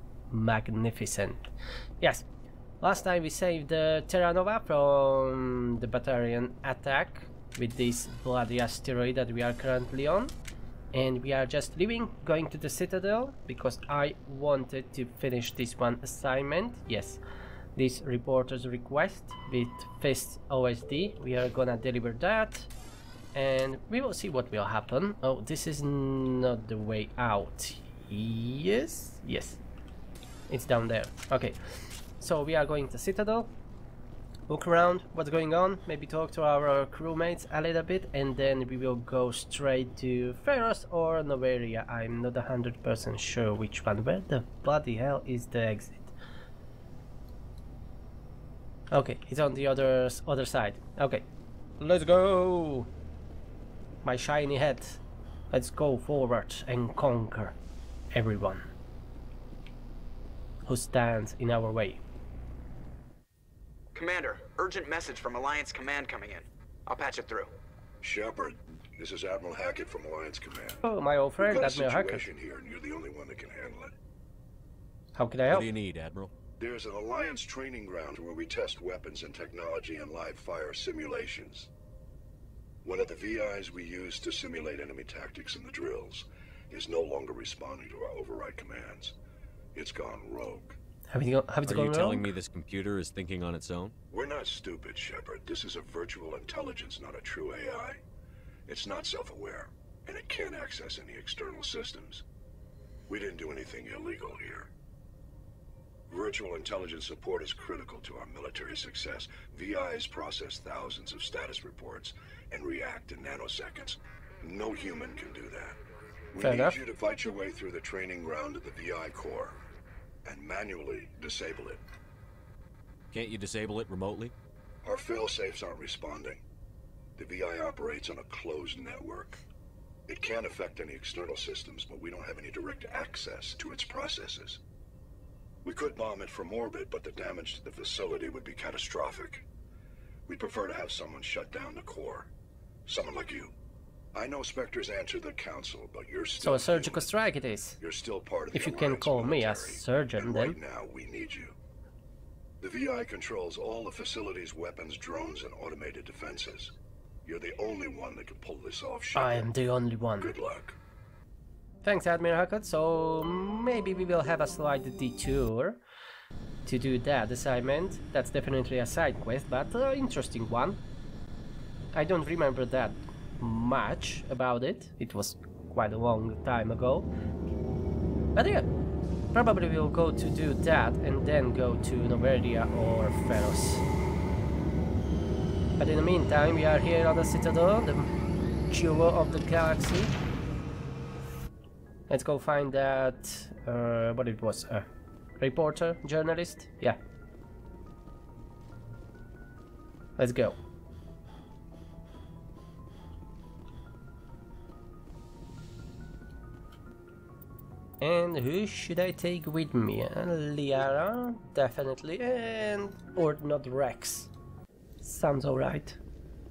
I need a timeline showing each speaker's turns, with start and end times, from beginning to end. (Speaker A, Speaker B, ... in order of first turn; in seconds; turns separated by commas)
Speaker A: 0.3-1.5, Speaker A: 2.8-10.3, Speaker A: 10.9-17.2, Speaker A: 17.8-22.7, Speaker A: 23.3-29.6, Speaker A: 30.5-33.5, Speaker A: 34.5-46.1, Speaker A: 48.9-51.3, Speaker A: 51.8-52.9, Speaker A: 54.0-55.0, Speaker A: 55.5-57.5, Speaker A: 58.1-58.7, Speaker A: 60.7-62.0, Speaker B: 63.9-67.5, Speaker C: 68.0-70.8, Speaker A: 70.8-72.3, Speaker C: 71.4-73.9, Speaker A: 75.1-75.7, Speaker D: 75.5-76.3, Speaker C: 76.6-81.7, Speaker C: 82.8-89.2, Speaker C: 89.8-90.8, Speaker A: 91.1-92.3, Speaker D: 91.6-93.9, Speaker C: 94.1-98.0, Speaker C: 98.7-102.2, Speaker C: 103.1-104.7, Speaker C: 106.1-115.8, Speaker C: 116.3-119.6, Speaker A: 116.4-116.8, Speaker C: 120.2-121.8, Speaker D: 123.1-124.3, Speaker C: 124.8-126.4, Speaker C: 127.2-129.4, Speaker C: 130.1-134.6, Speaker C: 135.6-139.4, Speaker C: 140.3-142.3, Speaker C: 142.8-143.5, Speaker C: 144.1-147.1, Speaker A: 146.4-147.8, Speaker C: 147.8-151.6, Speaker A: 148.5-150.6, Speaker C: 152.6-159.5, Speaker A: 159.1-160.3, Speaker C: 160.2-160.8, Speaker A: 161.8-165.8, Speaker A: 166.7-170.8, Speaker A: 171.9-177.1, Speaker A: 178.3-178.7, Speaker A: 179.3-183.8, Speaker A: 185.8-188.1, Speaker A: 188.7-190.2, Speaker A: 192.1-194.9, Speaker A: 195.4-197.0, Speaker A: 200.2-200.6, Speaker A: 208.0-214.3, Speaker A: 215.0-216.0